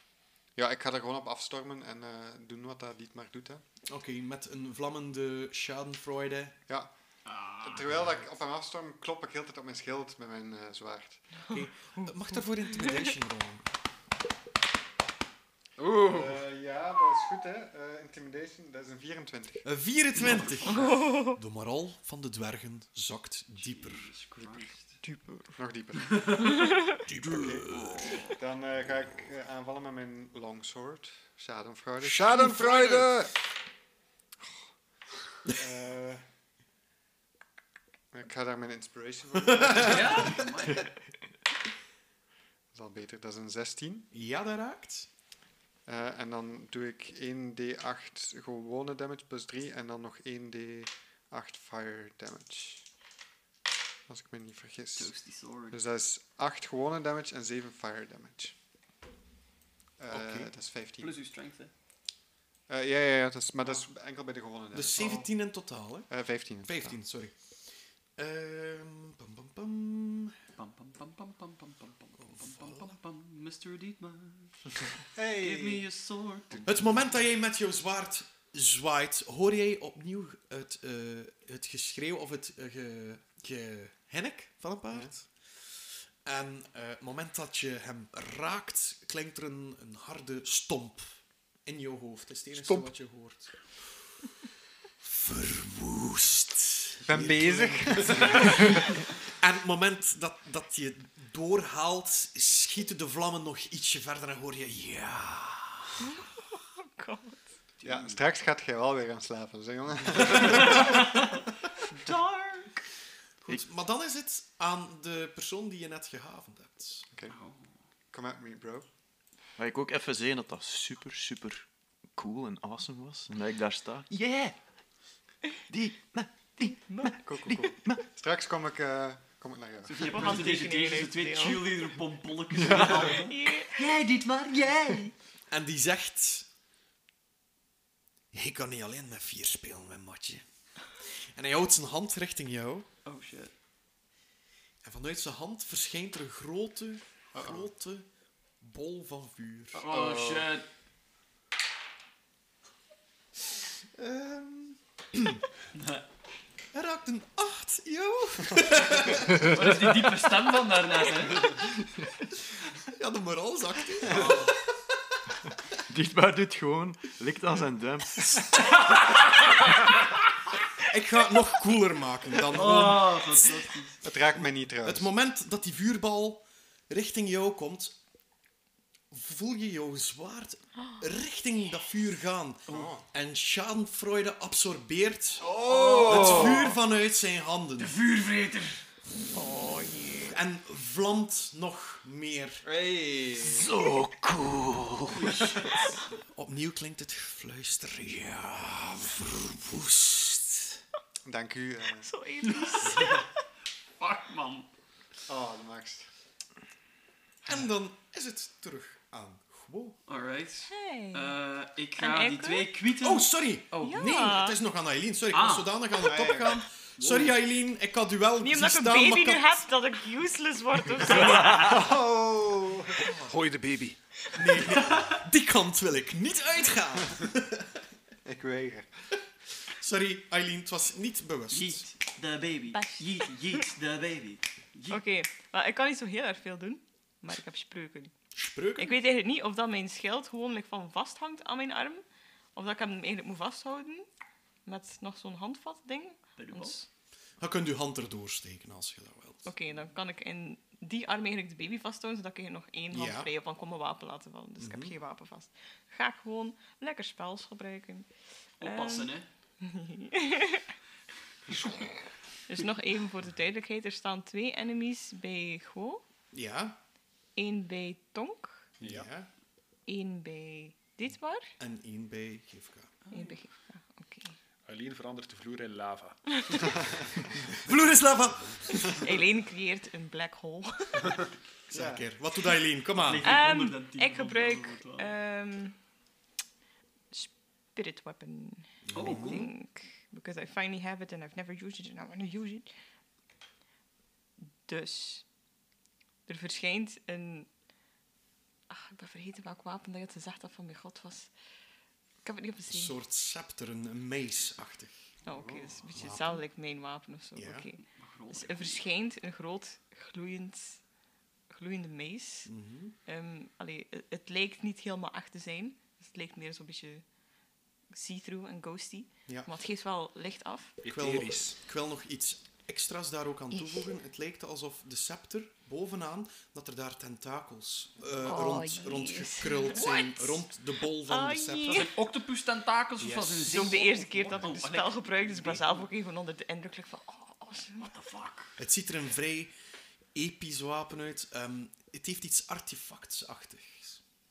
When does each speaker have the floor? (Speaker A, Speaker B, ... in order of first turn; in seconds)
Speaker A: 0.6-3.6, 7.6-11.2, 16.0-19.6, 20.7-20.9, 24.4-26.5, 27.3-33.3, 35.5-36.2, 38.1-40.4, 42.7-44.1, 45.9-52.9, 54.1-55.1, 55.7-58.5, 60.0-61.1, 62.7-65.3, 66.1-67.0, 75.1-75.9, 84.9-85.1, 97.0-99.0, 107.8-111.2, 118.1-118.9, 127.2-130.4, 147.3-147.7, 149.8-150.5, 174.0-175.1, 182.7-183.0, 185.4-186.6, 192.6-193.8, 201.2-202.1, 202.9-203.2, 205.3-206.1, 216.0-216.6, 221.3-223.2, 228.2-228.9, 281.7-282.0, 305.3-305.8
Speaker B: 3.9-6.5, 11.5-13.7, 19.6-24.1, 27.1-27.9, 32.0-33.1, 39.5-40.4, 44.1-45.1, 60.1-60.5, 64.7-66.1, 66.6-67.6, 68.2-70.3, 72.2-72.9, 76.7-85.7, 86.2-94.3, 95.0-106.0, 113.4-117.0, 135.5-136.5, 138.3-140.4, 141.0-142.9, 144.8-148.1, 148.6-149.8, 153.9-155.4, 156.7-159.7, 162.7-164.5, 170.8-173.6, 174.8-178.0, 179.1-185.5, 186.1-187.9, 190.2-192.6, 196.3-200.8, 207.4-210.0, 213.0-219.6, 224.3-227.8, 229.7-231.9, 238.3-239.0, 247.4-249.5, 252.9-253.3, 254.6-254.9, 266.3-266.8, 268.8-269.3, 271.6-272.9, 277.6-279.0, 281.7-283.3, 288.9-289.4, 302.7-305.0, 305.9-306.4, 307.3-307.7, 312.4-312.9, 320.9-331.9, 333.0-333.8, 338.6-339.5, 340.1-344.0
Speaker C: 7.2-7.9, 23.6-25.0, 26.1-26.7, 27.8-28.2, 39.8-40.9, 55.0-55.8, 61.0-61.7, 70.5-74.7, 75.4-77.0, 107.8-108.2, 110.3-111.2, 111.9-112.7, 117.3-117.7, 129.8-135.1, 143.1-143.5, 149.8-150.7, 155.7-156.1, 159.3-161.6, 168.8-169.4, 172.4-174.0, 185.6-186.5, 187.8-188.8, 195.1-195.6, 202.4-203.2, 204.0-204.7, 210.1-214.1, 215.3-215.8, 217.0-217.4, 221.2-221.7, 231.5-235.0, 246.4-246.8, 258.6-259.3, 261.5-261.8, 273.1-273.4, 283.0-285.1, 288.9-289.5, 307.9-308.8, 331.7-335.9, 337.8-338.6
Speaker D: 12.0-13.1, 20.8-21.4, 106.0-107.4, 126.7-127.1, 130.0-131.9, 133.1-133.8, 189.3-190.3, 202.0-203.3, 210.7-211.4, 212.0-212.7, 213.8-214.6, 218.4-221.8, 232.7-233.1, 234.9-238.1, 238.8-242.0, 242.5-244.1, 244.6-246.9, 249.4-258.1, 258.6-260.7, 262.5-266.0, 267.4-268.6, 269.9-271.5, 273.1-274.3, 278.9-281.2, 283.2-285.7, 287.1-292.7, 294.6-295.2, 296.3-297.5, 298.7-301.3, 302.2-302.9, 305.2-310.8, 311.5-312.5, 313.1-317.0, 317.9-320.7, 328.2-330.4, 331.1-331.9, 333.4-337.9
Speaker E: 15.8-16.4, 92.5-92.9, 223.1-224.0, 268.8-269.1, 274.7-276.9, 320.8-321.6
Speaker F: 27.2-28.1, 119.6-124.5, 125.7-128.0, 165.9-168.7, 193.4-195.4